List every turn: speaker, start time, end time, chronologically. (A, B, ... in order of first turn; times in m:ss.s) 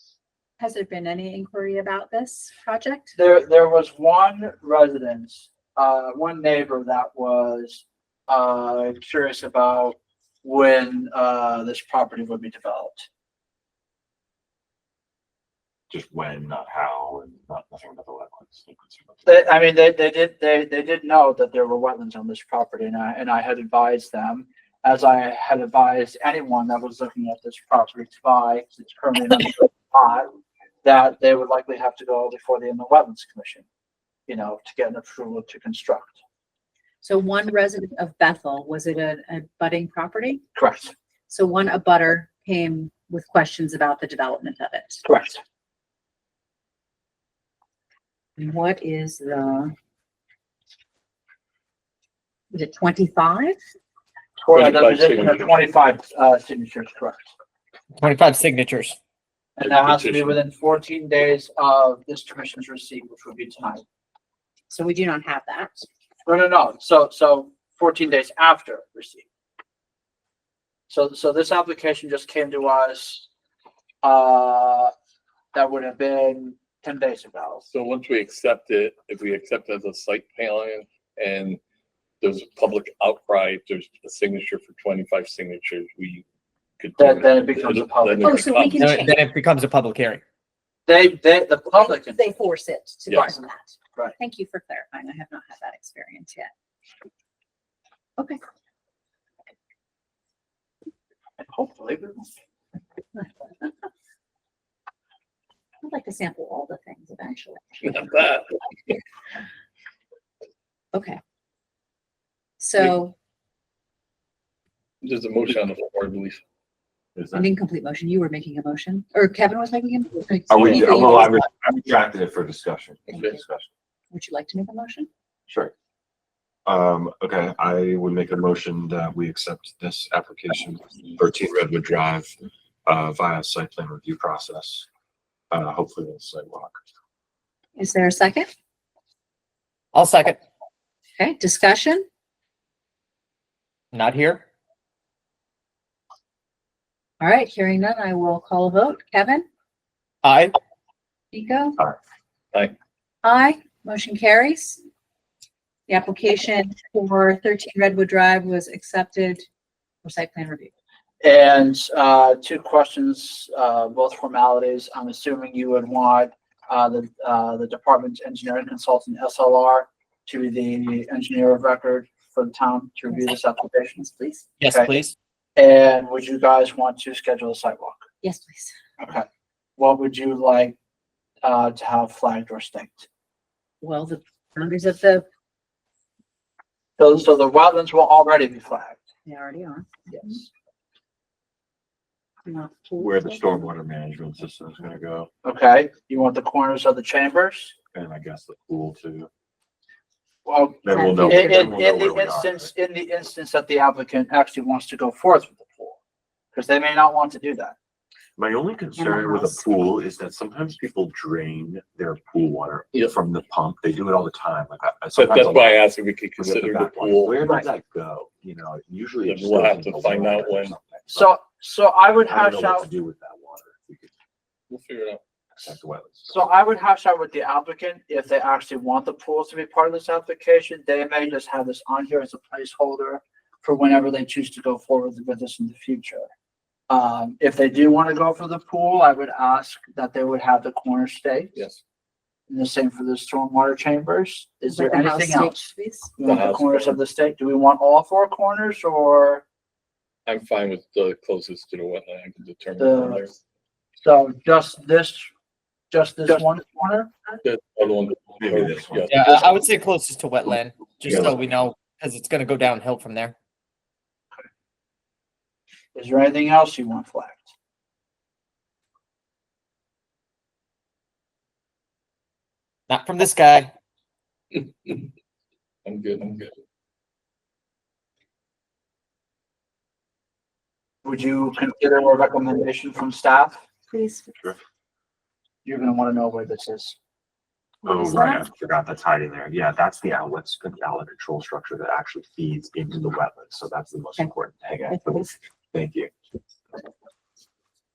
0:00.6-0:03.2 A
0:03.2-0:13.1 B
0:15.9-0:19.4 C
0:19.2-0:30.3 B
0:30.8-0:33.7 B
0:34.3-0:36.2 B
0:37.0-0:40.4 A
0:40.6-0:40.9 B
0:41.3-0:45.0 A
0:45.0-0:45.4 B
0:48.4-0:49.7 A
0:52.5-0:53.6 A
0:54.4-0:57.3 B
0:54.5-0:55.6 D
0:58.0-0:59.0 E
0:59.6-1:03.8 B
0:59.6-1:00.4 D
1:04.7-1:05.9 A
1:06.2-1:09.3 B
1:10.9-1:13.3 B
1:14.0-1:14.9 B
1:15.5-1:17.6 B
1:17.7-1:21.6 D
1:22.2-1:26.2 D
1:26.8-1:28.9 D
1:27.0-1:28.5 B
1:28.2-1:29.2 A
1:28.8-1:30.2 E
1:30.9-1:32.3 B
1:31.7-1:36.5 A
1:41.4-1:42.3 B
1:45.8-1:48.0 A
1:47.8-1:48.6 D
1:50.9-1:51.2 A
1:52.6-1:53.1 A
1:55.0-1:56.4 D
1:57.2-1:57.5 C
1:57.3-2:01.4 A
2:00.5-2:03.7 C
2:03.1-2:03.4 D
2:04.1-2:05.1 A
2:05.5-2:05.7 C
2:06.7-2:12.4 C
2:12.9-2:14.9 C
2:15.5-2:16.8 C
2:17.8-2:18.5 A
2:19.9-2:20.4 E
2:21.2-2:22.0 A
2:23.9-2:24.4 E
2:27.2-2:29.5 A
2:30.2-2:30.5 E
2:31.3-2:31.9 A
2:33.2-2:34.8 A
2:35.9-2:39.4 A
2:40.0-2:40.7 A
2:41.2-2:54.1 B
2:54.0-2:54.5 A
2:54.6-2:55.2 E
2:54.7-2:54.9 B
2:55.6-2:58.1 B
2:58.2-2:58.7 A
2:59.0-2:59.3 B
2:59.8-3:00.8 B
3:01.4-3:03.1 B
3:03.8-3:05.3 A
3:07.0-3:09.0 B
3:09.2-3:10.4 A
3:10.1-3:10.5 B
3:12.5-3:13.7 A
3:13.0-3:15.3 C
3:15.4-3:17.8 B
3:17.9-3:19.3 C
3:20.5-3:26.0 B
3:20.8-3:22.7 C
3:20.9-3:21.7 A
3:26.5-3:27.8 B
3:28.4-3:35.8 C
3:29.0-3:29.6 A
3:35.2-3:37.4 D
3:36.4-3:41.4 C
3:39.2-3:40.8 D
3:41.1-3:42.9 B
3:42.3-3:44.1 C
3:44.7-3:45.2 D
3:45.6-3:46.4 C
3:46.3-3:56.3 B
3:56.9-4:01.6 B
4:01.6-4:01.8 D
4:02.5-4:09.4 B
4:04.6-4:06.1 A
4:06.2-4:07.0 D
4:10.3-4:13.4 D
4:12.8-4:13.2 B
4:14.0-4:15.3 B
4:15.9-4:17.1 B
4:17.4-4:19.5 D
4:18.4-4:19.2 C
4:19.1-4:23.4 E
4:21.0-4:21.7 C
4:25.9-4:27.5 B
4:32.9-4:33.7 E
4:34.5-4:35.1 D
4:35.8-4:36.5 D
4:41.0-4:43.6 B
4:43.9-4:44.5 A
4:45.6-4:47.0 B
4:47.8-4:48.5 A
4:47.8-4:56.1 C
4:54.9-4:55.3 A